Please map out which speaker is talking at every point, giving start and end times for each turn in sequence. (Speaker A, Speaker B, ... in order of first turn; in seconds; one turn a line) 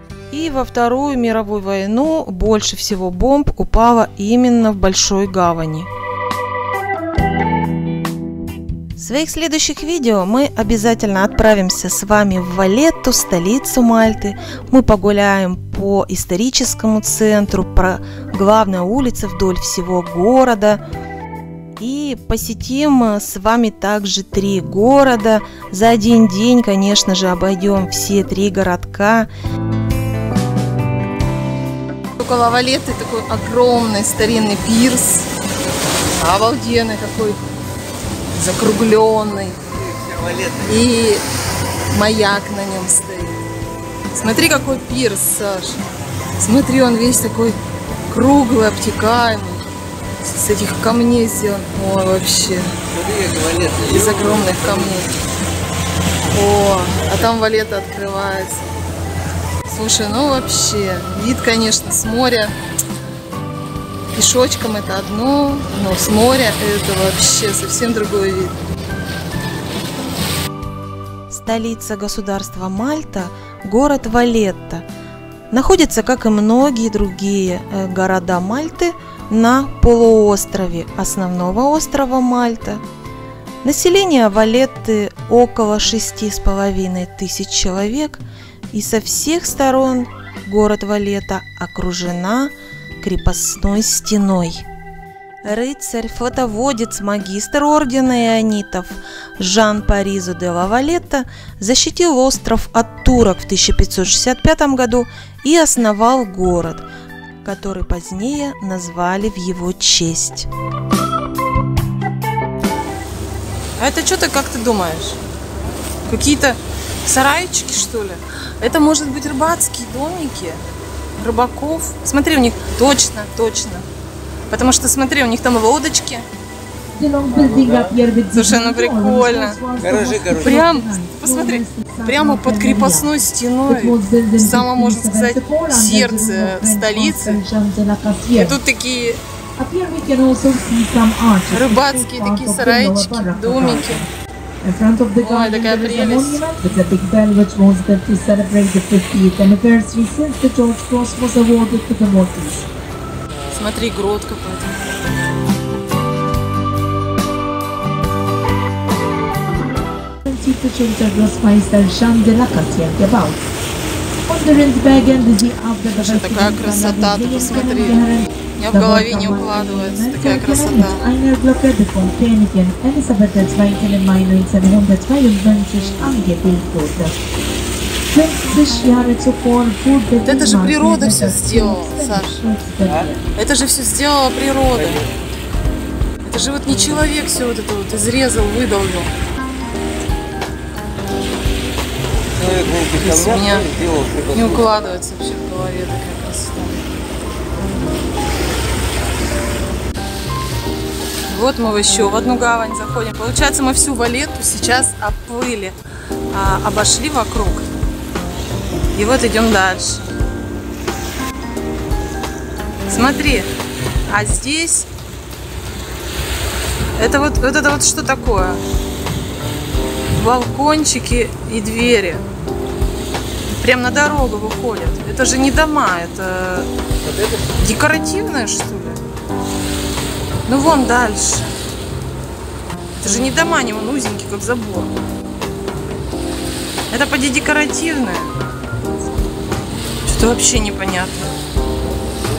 Speaker A: 0.3-5.9
Speaker A: 9.0-20.8
Speaker A: 21.8-29.3
Speaker B: 32.2-35.3
Speaker B: 36.2-37.4
Speaker B: 38.4-39.6
Speaker C: 39.6-40.8
Speaker B: 40.6-41.2
Speaker B: 41.9-43.4
Speaker B: 44.1-45.8
Speaker B: 46.4-47.6
Speaker B: 48.1-49.6
Speaker B: 50.2-52.7
Speaker C: 52.9-55.0
Speaker B: 53.9-55.1
Speaker B: 56.3-58.6
Speaker B: 59.7-62.5
Speaker B: 64.1-68.5
Speaker A: 71.3-74.8
Speaker A: 75.5-82.8
Speaker A: 83.6-94.7
Speaker A: 95.4-106.8
Speaker A: 107.4-110.5
Speaker B: 113.8-115.2
Speaker B: 116.0-120.6
Speaker B: 121.2-123.8
Speaker B: 124.5-126.2
Speaker D: 127.0-133.1
Speaker C: 127.3-128.0
Speaker B: 128.3-129.6
Speaker C: 129.8-130.6
Speaker B: 130.3-137.4
Speaker D: 133.7-138.6
Speaker B: 138.3-139.2
Speaker D: 139.6-144.1
Speaker B: 141.5-144.0
Speaker D: 144.6-152.7
Speaker B: 145.2-146.5
Speaker B: 153.5-154.7
Speaker D: 160.2-163.4
Speaker D: 164.3-177.2
Speaker B: 165.9-168.0
Speaker B: 168.6-171.0
Speaker D: 178.1-183.2
Speaker B: 180.2-182.4
Speaker C: 182.8-183.1
Speaker B: 183.3-185.0
Speaker C: 184.7-185.1
Speaker B: 186.2-189.1
Speaker C: 192.3-194.7
Speaker B: 193.0-193.7
Speaker B: 194.3-196.8
Speaker B: 201.3-205.7
Speaker B: 206.3-207.6
Speaker B: 208.9-210.0
Speaker B: 212.9-213.5
Speaker B: 214.1-214.9
Speaker B: 217.0-218.6
Speaker B: 220.1-222.2
Speaker B: 223.6-226.7
Speaker C: 227.0-227.6
Speaker B: 227.6-229.0
Speaker B: 230.5-231.5
Speaker B: 233.0-234.9
Speaker B: 236.9-238.3
Speaker B: 240.0-241.3